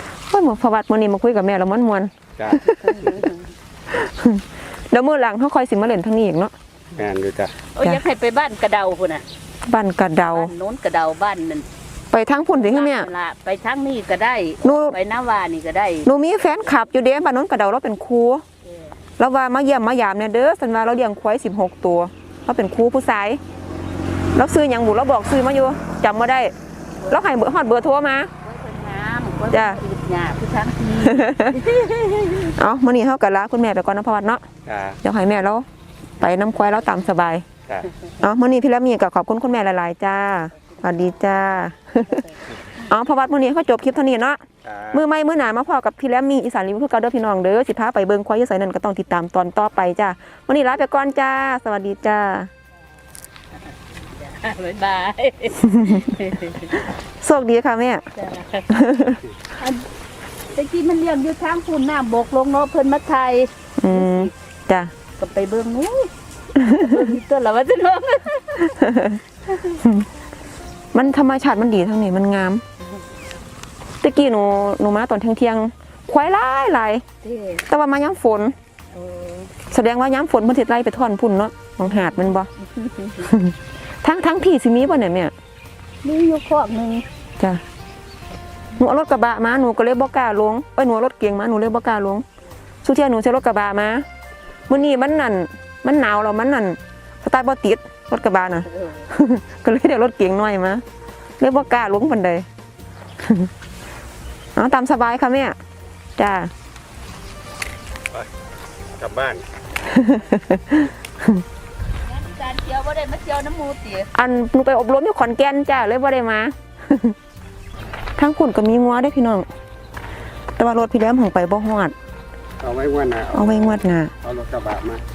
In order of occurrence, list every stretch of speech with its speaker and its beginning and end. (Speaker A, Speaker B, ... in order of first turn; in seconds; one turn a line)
Speaker A: 0.3-3.2
Speaker B: 2.4-3.2
Speaker C: 2.8-3.4
Speaker A: 3.9-6.5
Speaker B: 6.9-7.5
Speaker C: 7.7-9.2
Speaker A: 9.7-10.5
Speaker C: 10.3-11.7
Speaker A: 12.1-13.1
Speaker C: 12.5-16.1
Speaker A: 14.6-14.9
Speaker A: 16.0-18.4
Speaker C: 18.6-18.9
Speaker A: 19.2-23.4
Speaker A: 24.3-26.5
Speaker C: 27.0-27.2
Speaker A: 27.1-28.3
Speaker C: 28.4-32.5
Speaker A: 29.5-29.8
Speaker A: 31.0-31.6
Speaker A: 32.5-34.4
Speaker B: 34.6-35.0
Speaker A: 35.0-35.7
Speaker A: 36.2-37.5
Speaker C: 36.2-37.0
Speaker A: 38.2-42.2
Speaker C: 40.6-41.4
Speaker C: 42.0-42.4
Speaker A: 42.8-52.5
Speaker B: 44.6-45.0
Speaker C: 53.5-56.8
Speaker A: 55.7-56.1
Speaker A: 57.2-58.1
Speaker C: 58.1-58.8
Speaker A: 58.7-59.2
Speaker C: 59.6-59.9
Speaker C: 60.5-64.3
Speaker A: 63.8-64.9
Speaker C: 65.2-68.9
Speaker A: 66.6-67.1
Speaker A: 68.7-69.2
Speaker C: 69.5-69.8
Speaker A: 69.8-70.1
Speaker A: 70.9-72.6
Speaker A: 74.0-77.0
Speaker C: 77.2-77.7
Speaker A: 77.7-78.5
Speaker C: 78.9-79.5
Speaker A: 79.7-82.5
Speaker C: 82.6-83.3
Speaker A: 83.2-85.3
Speaker C: 86.0-87.0
Speaker A: 88.8-92.2
Speaker A: 92.8-94.0
Speaker A: 94.7-100.8
Speaker C: 98.3-99.1
Speaker A: 101.4-102.5
Speaker A: 103.2-103.5
Speaker A: 104.5-105.6
Speaker A: 106.2-106.5
Speaker B: 109.0-109.4
Speaker A: 109.8-111.4
Speaker C: 112.0-114.1
Speaker A: 114.1-117.2
Speaker A: 118.2-119.5
Speaker A: 120.6-121.9
Speaker B: 122.6-125.0
Speaker A: 123.3-124.1